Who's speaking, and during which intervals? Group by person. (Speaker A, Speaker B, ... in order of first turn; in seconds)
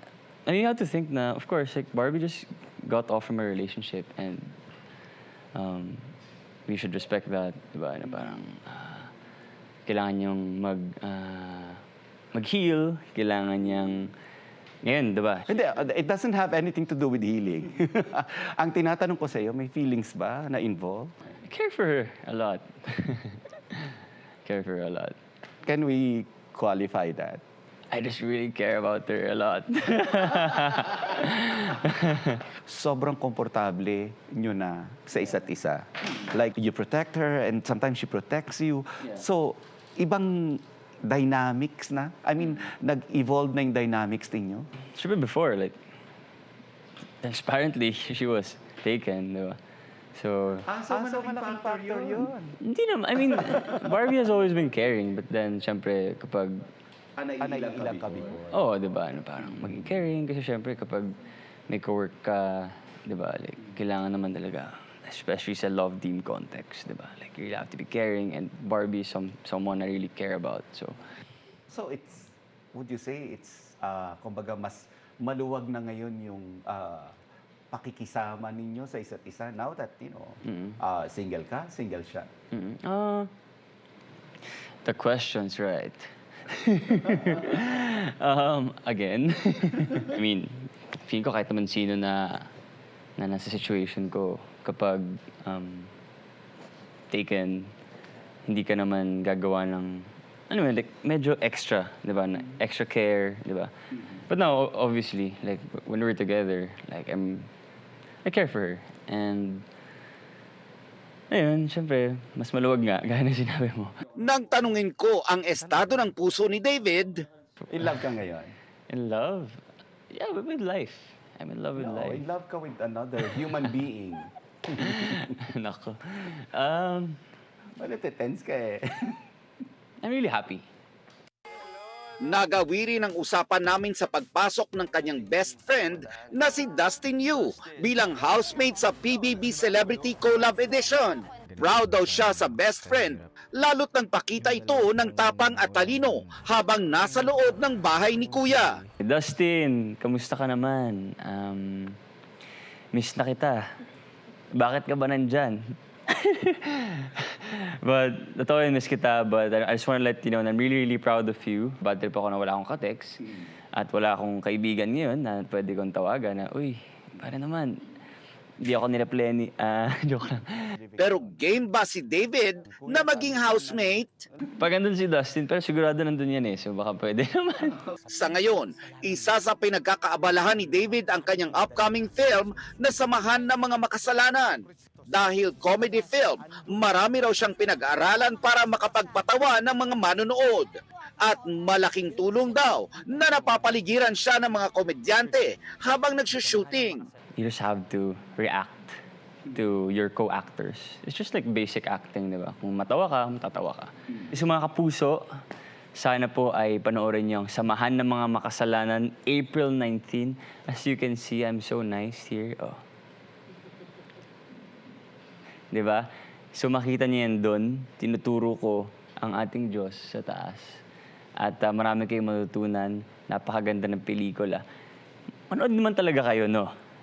Speaker A: 0.5-4.5, 5.5-6.0, 6.7-9.1, 9.9-11.8, 12.3-14.1, 14.8-15.5, 21.4-23.8, 24.4-25.1, 27.9-32.4, 45.0-45.8, 47.2-49.6, 50.1-50.7, 52.6-56.7, 58.5-61.2, 61.7-71.0, 82.5-83.3, 84.8-92.5, 93.2-95.9, 97.1-97.7, 98.5-103.7, 104.3-107.5, 108.2-109.6, 111.3-113.9, 117.8-118.0, 118.9-119.6, 120.1-122.3, 123.2-123.8, 124.8-127.2, 130.0-130.6, 149.0-152.0, 152.9-153.6, 154.6-155.6, 156.2-157.0, 157.8-163.2, 163.8-167.8, 168.6-170.7, 174.6-177.8, 197.4-198.9, 199.5-205.2, 206.0-212.8, 215.7-220.8, 221.4-224.6, 225.5-226.7
Speaker B: 15.5-21.1, 25.6-27.4, 32.7-44.7, 50.7-52.5, 57.2-58.6, 71.7-77.1, 77.7-82.3, 117.7-118.5, 121.8-124.9, 127.8-128.8, 172.9-173.9
Speaker C: 51.0-52.2, 114.2-117.2, 132.2-148.8, 171.0-174.2, 178.1-190.7, 191.2-197.1